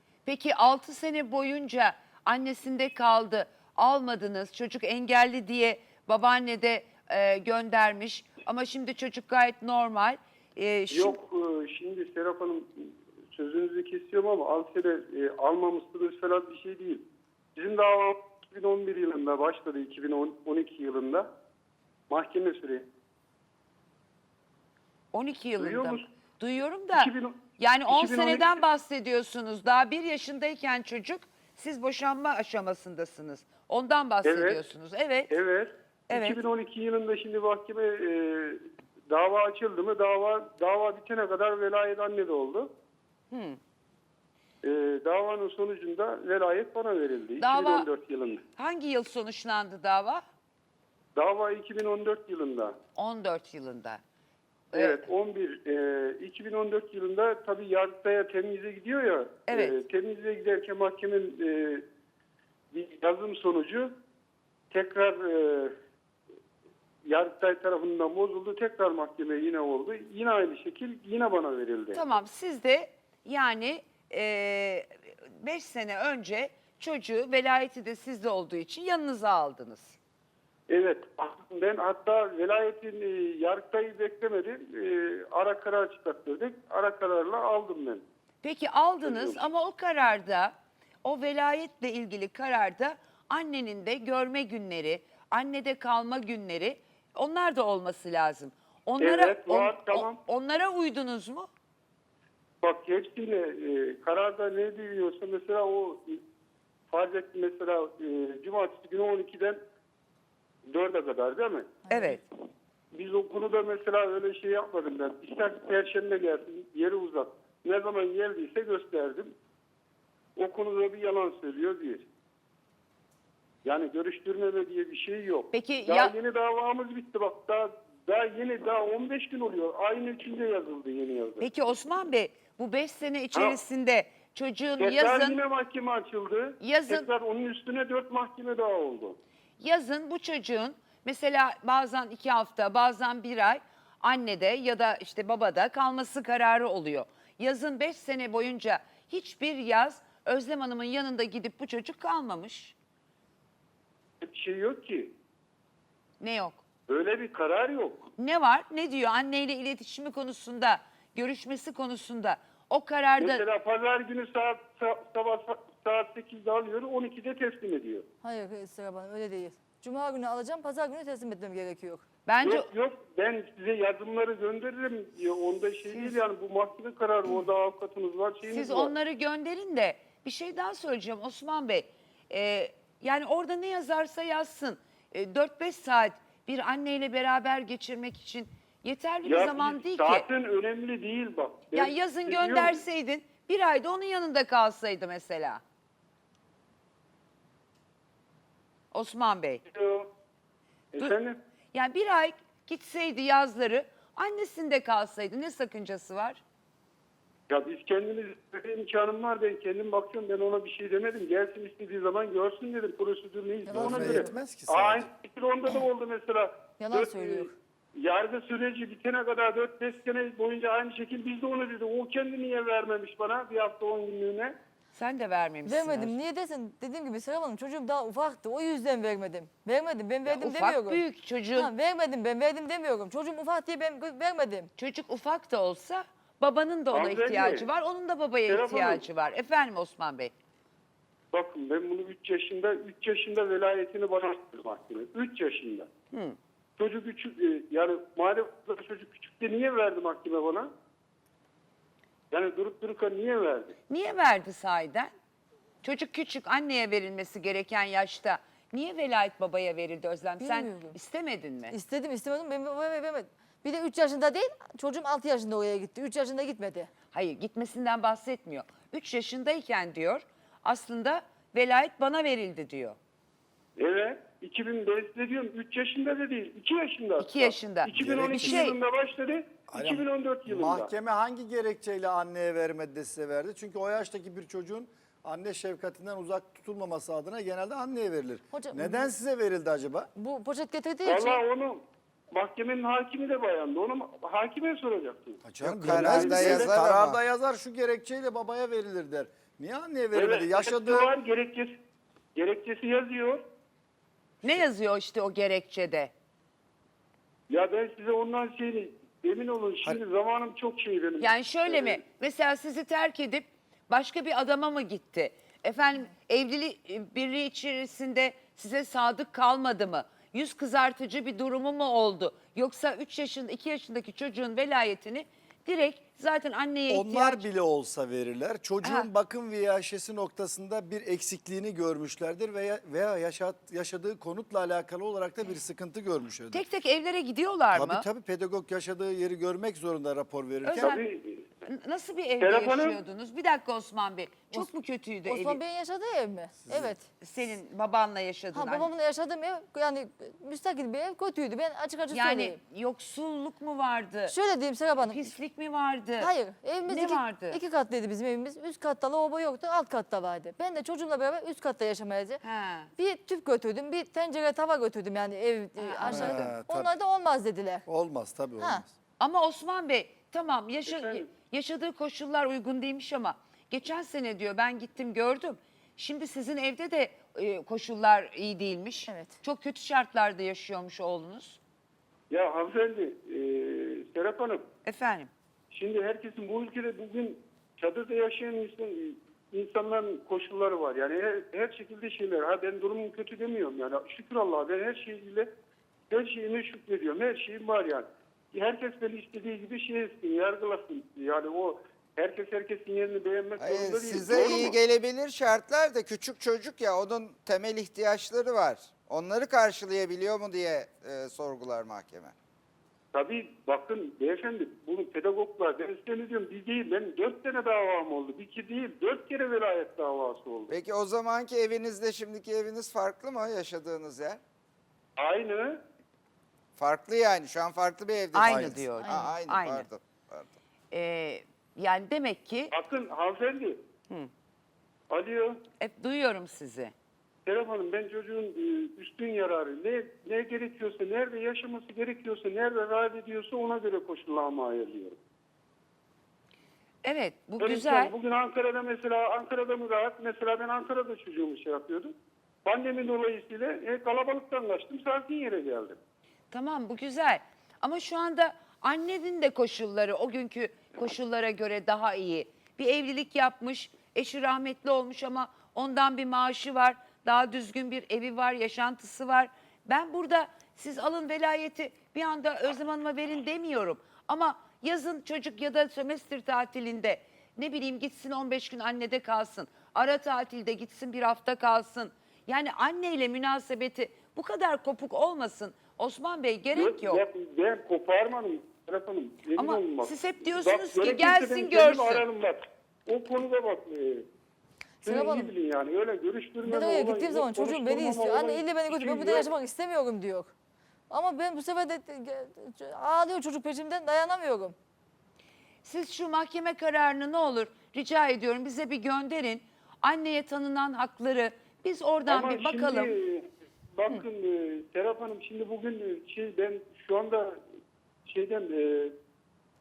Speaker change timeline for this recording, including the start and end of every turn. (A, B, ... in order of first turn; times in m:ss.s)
0:00.3-0:11.2 A
0:10.9-0:21.3 B
0:22.1-0:22.9 B
0:25.1-0:35.4 A
0:25.6-0:26.0 B
0:26.9-0:28.6 B
0:34.2-0:34.6 B
0:35.3-0:42.7 B
0:36.1-0:36.4 A
0:43.3-0:43.6 A
0:44.6-0:48.4 B
0:47.4-0:47.9 A
0:48.6-0:50.2 A
0:51.2-0:52.8 B
0:53.0-0:54.0 A
0:54.7-0:55.1 A
0:54.7-1:01.8 B
0:59.5-0:59.8 A
1:02.7-1:04.0 B
1:04.7-1:05.8 B
1:07.0-1:12.0 B
1:11.9-1:20.0 A
1:20.7-1:28.0 B
1:28.4-1:41.5 A
1:29.0-1:29.4 B
1:39.0-1:40.2 B
1:42.6-1:46.2 B
1:46.9-1:49.6 B
1:50.7-1:51.8 B
1:51.9-1:52.2 A
1:52.9-1:59.3 B
2:00.4-2:02.1 B
2:03.6-2:11.5 B
2:05.5-2:06.2 A
2:11.4-2:15.4 A
2:14.8-2:19.2 B
2:16.6-2:17.1 A
2:19.6-2:32.7 A
2:34.2-2:35.2 B
2:36.2-2:36.6 A
2:36.9-2:38.1 B
2:38.2-2:43.4 A
2:43.2-2:48.1 B
2:48.2-2:52.1 C
2:52.3-2:52.7 A
2:52.4-2:58.9 B
2:55.9-2:56.2 A
2:58.5-3:10.3 A
3:09.2-3:12.8 B
3:11.7-3:15.6 A
3:18.9-3:19.6 A
3:19.7-3:20.1 B
3:20.9-3:21.4 B
3:21.7-3:26.4 A
3:27.5-3:44.6 B
3:33.7-3:34.3 C
3:33.7-3:35.1 D
3:36.8-3:37.6 C
3:45.0-3:46.2 A
3:45.6-3:51.0 C
3:50.3-3:51.7 A
3:51.6-3:54.7 C
3:54.8-4:00.3 A
3:56.9-3:57.7 B
3:58.5-3:59.0 B
4:01.3-4:05.9 B
4:06.1-4:06.4 A
4:06.8-4:10.7 B
4:12.3-4:13.8 B
4:13.9-4:15.1 A
4:15.8-4:21.8 A
4:20.4-4:21.0 C
4:21.7-4:26.9 C
4:27.1-4:33.0 A
4:33.8-4:40.9 B
4:37.2-4:38.8 A
4:38.0-4:38.7 D
4:39.7-4:50.1 D
4:48.5-4:49.1 C
4:50.2-4:51.4 C
4:51.0-4:56.8 B
4:55.4-5:01.1 D
4:55.6-4:57.2 E
5:00.1-5:01.8 B
5:02.4-5:03.4 B
5:04.4-5:06.1 A
5:07.5-5:12.0 B
5:11.2-5:27.4 A
5:26.9-5:36.6 D
5:28.8-5:29.1 A
5:36.5-5:38.0 A
5:37.7-5:41.0 D
5:40.6-5:41.0 A
5:40.8-5:41.4 B
5:41.6-5:45.6 A
5:42.4-5:43.0 B
5:45.3-5:47.0 C
5:46.7-5:47.0 D
5:47.2-5:48.9 A
5:48.5-5:52.6 C
5:52.1-5:54.4 A
5:54.3-5:55.3 C
5:55.0-5:56.3 A
5:56.2-6:02.4 C
5:56.9-5:57.6 A
6:02.4-6:02.9 A
6:03.0-6:07.9 C
6:05.8-6:06.5 A
6:06.1-6:06.9 D
6:07.9-6:08.9 D
6:09.2-6:21.6 A
6:10.9-6:11.2 B
6:19.1-6:19.4 C
6:22.3-6:24.7 B
6:24.8-6:25.3 A
6:25.7-6:35.5 B
6:36.1-6:44.8 B
6:43.6-6:52.4 E
6:53.1-7:00.7 B
7:00.7-7:04.4 E
7:05.2-7:05.8 B
7:06.8-7:10.5 E
7:08.3-7:09.9 A
7:08.5-7:08.8 D
7:09.0-7:09.3 C
7:10.9-7:12.7 A
7:12.7-7:13.8 B
7:15.1-7:15.6 B
7:15.8-7:16.9 A
7:17.5-7:25.2 B
7:27.0-7:28.1 A
7:27.6-7:36.0 B
7:36.5-8:07.2 A
8:06.8-8:14.3 B
8:09.6-8:12.3 A
8:15.0-8:15.5 C
8:15.0-8:19.5 B
8:16.6-8:20.5 C
8:21.1-8:24.8 C
8:25.8-8:33.2 A
8:32.3-8:37.6 B
8:38.3-8:39.2 B